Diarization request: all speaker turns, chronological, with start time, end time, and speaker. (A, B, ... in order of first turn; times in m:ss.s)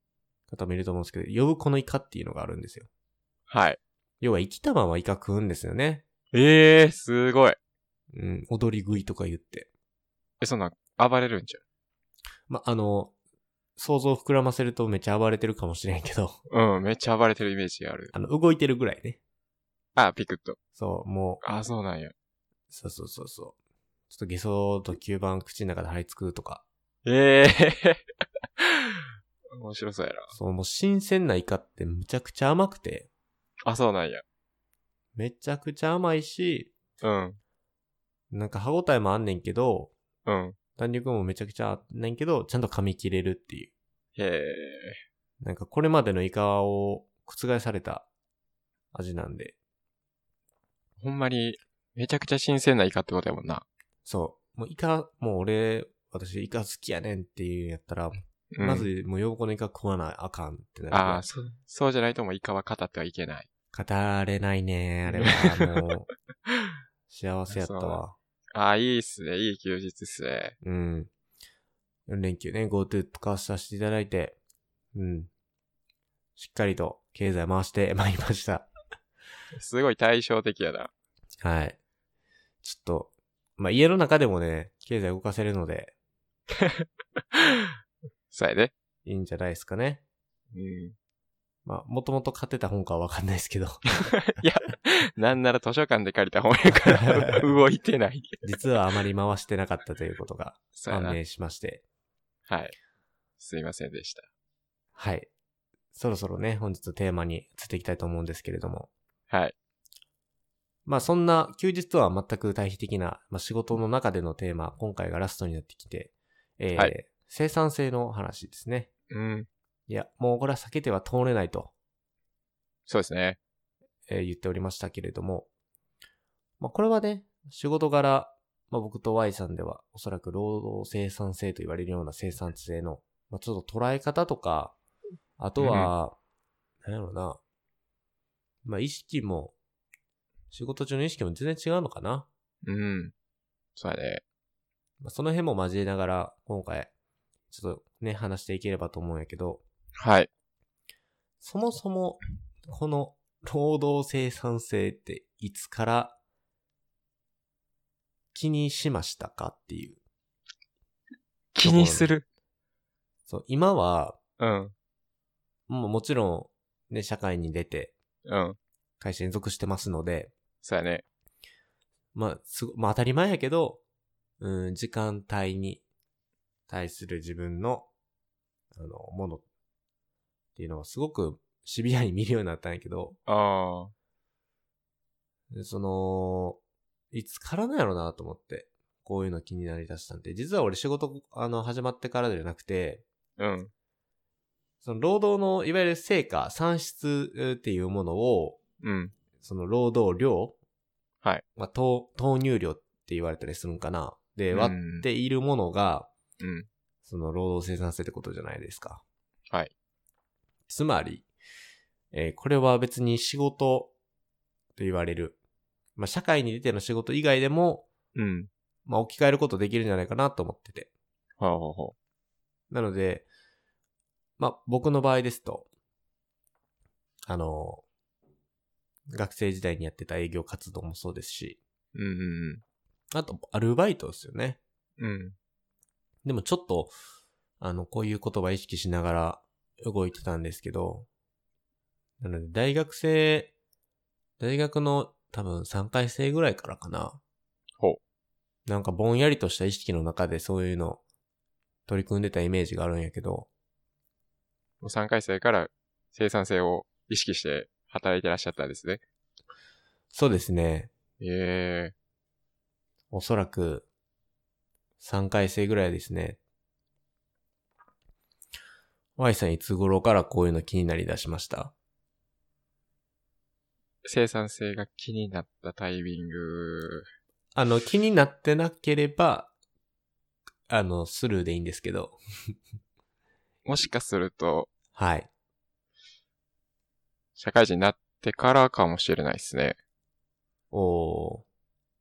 0:00.5-0:02.9 A
0:03.5-0:03.8 B
0:04.2-0:06.0 A
0:06.3-0:07.6 B
0:08.1-0:09.7 A
0:10.4-0:11.6 B
0:12.5-0:13.1 A
0:13.8-0:16.4 A
0:16.5-0:18.1 B
0:18.1-0:19.2 A
0:20.0-0:20.6 B
0:20.8-0:21.4 A
0:21.4-0:22.1 B
0:22.7-0:23.6 A
0:24.1-0:26.6 A
0:27.0-0:28.0 B
0:28.6-0:30.3 B
0:30.3-0:33.1 A
0:33.6-0:34.2 B
0:35.2-0:36.7 A
0:37.0-0:37.4 B
0:38.3-0:39.9 A
0:40.2-0:40.6 B
0:40.8-0:43.7 A
0:44.2-0:45.0 B
0:45.4-0:48.1 A
0:48.9-0:49.6 A
0:51.0-0:53.6 B
0:54.0-1:01.2 A
0:58.5-0:58.9 B
1:00.9-1:03.5 B
1:03.7-1:06.1 A
1:05.1-1:05.7 B
1:06.5-1:06.7 B
1:07.1-1:08.2 A
1:07.5-1:08.0 B
1:08.5-1:10.6 B
1:10.6-1:11.1 A
1:12.1-1:14.4 A
1:14.9-1:15.3 A
1:16.4-1:18.7 A
1:19.5-1:20.9 B
1:21.4-1:21.8 A
1:22.6-1:25.9 A
1:26.6-1:27.7 B
1:28.3-1:28.7 B
1:29.0-1:30.0 A
1:30.5-1:31.0 B
1:31.6-1:34.0 A
1:34.1-1:38.4 B
1:36.9-1:37.4 A
1:38.4-1:41.8 A
1:40.8-1:41.2 B
1:42.5-1:42.8 B
1:43.4-1:44.3 B
1:45.0-1:45.3 A
1:45.9-1:48.9 A
1:50.9-1:58.9 A
1:59.1-1:59.5 B
1:59.9-2:01.7 A
2:02.9-2:03.4 B
2:04.1-2:05.5 A
2:06.6-2:14.8 A
2:15.4-2:16.2 A
2:15.6-2:15.9 B
2:16.8-2:17.4 A
2:18.6-2:19.5 A
2:20.5-2:22.3 A
2:22.6-2:23.1 B
2:23.8-2:24.2 B
2:25.0-2:26.9 A
2:27.5-2:29.6 A
2:30.0-2:30.3 B
2:31.4-2:36.2 A
2:38.3-2:40.0 A
2:41.5-2:42.3 B
2:41.6-2:42.1 A
2:43.3-2:44.2 A
2:44.4-2:44.8 B
2:45.7-2:47.9 A
2:48.2-2:48.6 B
2:49.0-2:50.3 A
2:50.6-2:51.0 B
2:52.1-2:53.8 A
2:54.4-2:55.8 A
2:56.7-2:57.9 A
2:58.7-2:59.4 A
3:00.6-3:03.2 A
3:03.3-3:03.9 B
3:05.5-3:06.6 A
3:07.1-3:13.0 A
3:13.4-3:13.7 B
3:14.8-3:18.6 A
3:18.8-3:19.2 B
3:19.4-3:20.6 A
3:21.6-3:26.1 A
3:24.5-3:25.1 B
3:26.4-3:26.7 B
3:27.0-3:29.0 A
3:30.7-3:31.3 A
3:32.1-3:33.9 A
3:34.8-3:35.4 A
3:36.0-3:37.9 A
3:38.2-3:38.5 B
3:38.9-3:40.9 A
3:41.4-3:41.9 B
3:42.7-3:43.3 A
3:44.4-3:45.7 A
3:47.3-3:47.8 A
3:49.1-3:51.6 A
3:51.9-3:52.6 B
3:53.1-3:54.6 A
3:55.0-3:55.4 B
3:56.2-3:56.9 A
3:57.6-4:01.1 A
4:02.2-4:03.5 A
4:04.4-4:07.2 A
4:08.7-4:11.0 A
4:11.9-4:13.5 A
4:14.8-4:19.0 B
4:20.1-4:20.9 A
4:21.2-4:21.9 B
4:23.1-4:23.9 A
4:25.0-4:26.4 A
4:29.2-4:31.7 A
4:34.0-4:37.1 B
4:37.6-4:39.5 A
4:40.7-4:42.2 A
4:43.6-4:44.7 B
4:44.9-4:45.3 A
4:47.4-4:49.8 B
4:50.7-4:51.4 A